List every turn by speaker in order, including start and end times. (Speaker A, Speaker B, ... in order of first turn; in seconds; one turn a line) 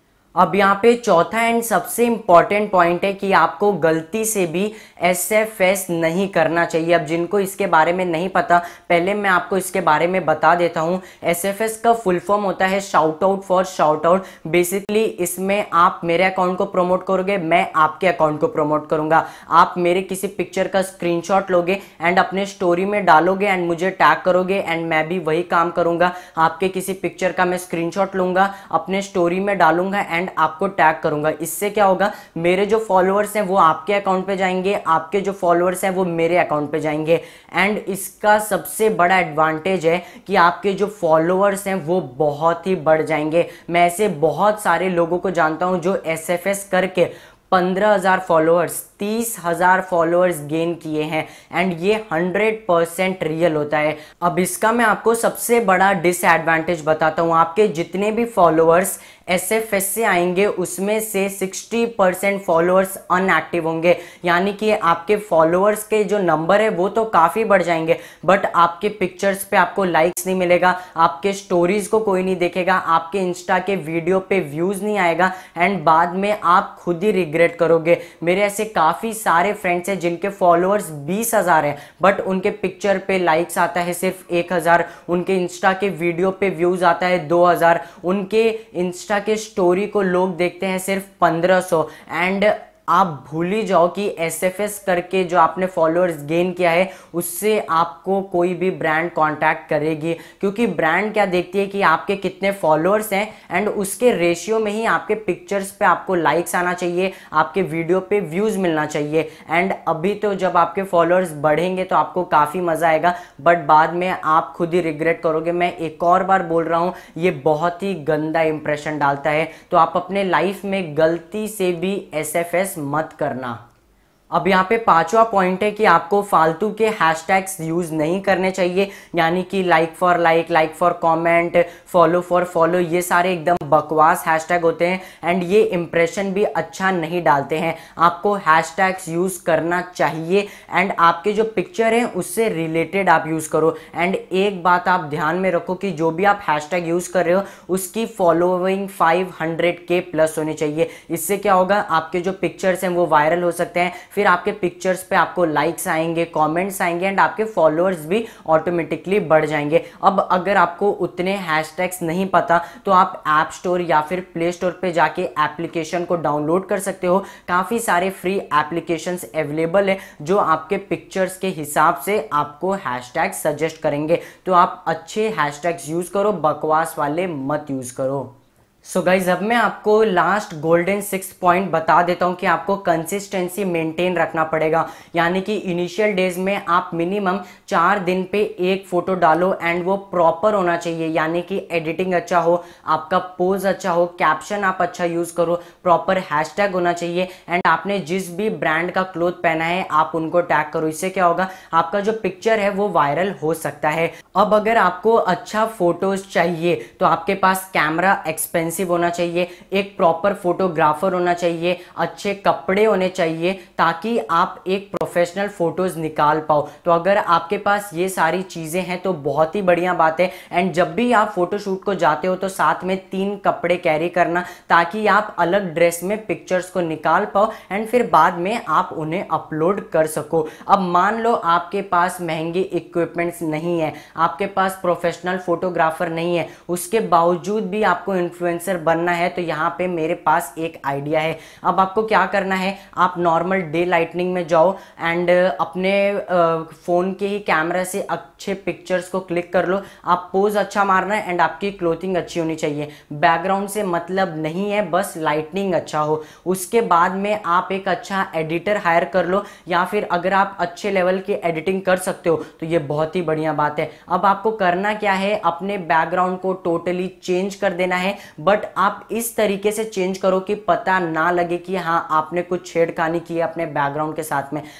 Speaker A: 0.4-123.6
Speaker A: 124.3-178.3
Speaker A: 178.9-274.6